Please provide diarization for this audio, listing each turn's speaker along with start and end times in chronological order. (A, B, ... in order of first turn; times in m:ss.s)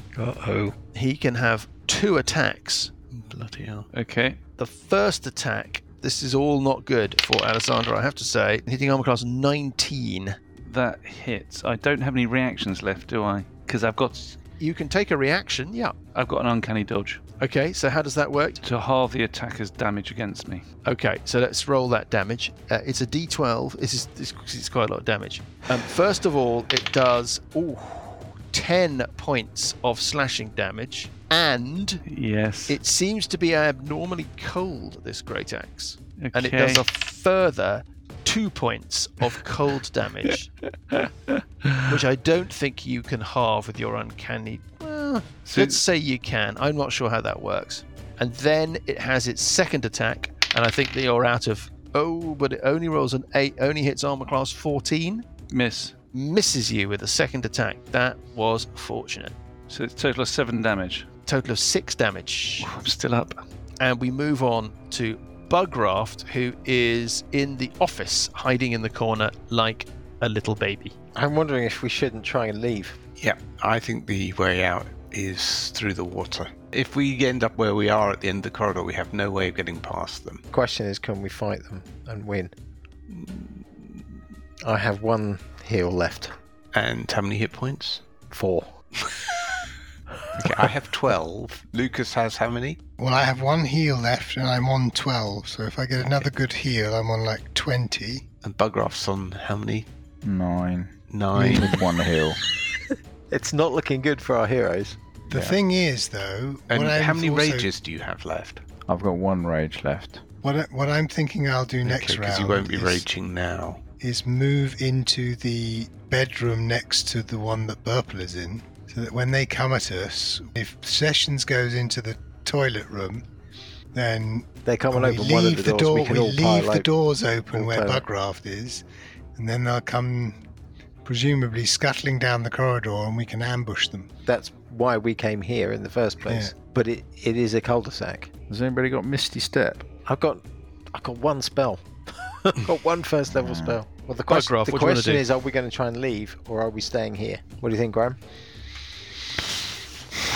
0:00.2-0:00.5 A
0:00.9-0:02.9 B
0:03.1-0:03.9 C
0:03.9-0:04.4 D
0:04.6-0:10.4 B
0:10.6-0:14.4 D
0:14.6-0:16.0 B
0:16.1-0:17.2 D
0:17.4-0:18.6 B
0:18.6-0:20.6 D
0:20.8-0:32.0 B
0:32.1-0:32.8 D
0:32.7-0:40.4 B
0:36.2-0:36.8 D
0:40.9-0:41.9 D
0:41.8-0:55.2 B
0:45.4-0:45.8 D
0:55.5-0:55.9 D
0:56.1-0:59.3 B
0:59.7-1:01.1 D
1:01.2-1:02.7 B
1:02.6-1:03.4 D
1:03.8-1:10.9 B
1:11.1-1:13.0 A
1:13.2-1:20.4 C
1:20.5-1:22.5 A
1:23.1-1:23.9 C
1:24.6-1:26.4 A
1:26.7-1:28.1 C
1:28.3-1:28.7 A
1:30.4-1:32.8 C
1:33.0-1:38.2 E
1:38.4-1:39.9 C
1:40.2-1:42.4 F
1:41.1-1:41.8 C
1:43.3-1:45.0 A
1:45.3-1:45.6 F
1:45.3-1:47.7 E
1:46.7-1:48.6 C
1:48.9-1:50.2 F
1:50.4-1:53.0 E
1:51.8-1:53.8 C
1:54.0-2:03.2 E
2:03.9-2:08.8 E
2:04.6-2:06.9 A
2:07.5-2:08.0 A
2:09.4-2:10.4 E
2:11.0-2:14.1 E
2:14.2-2:18.3 A
2:16.3-2:16.5 E
2:18.5-2:19.8 F
2:20.0-2:28.2 A
2:23.3-2:23.8 F
2:24.3-2:25.2 B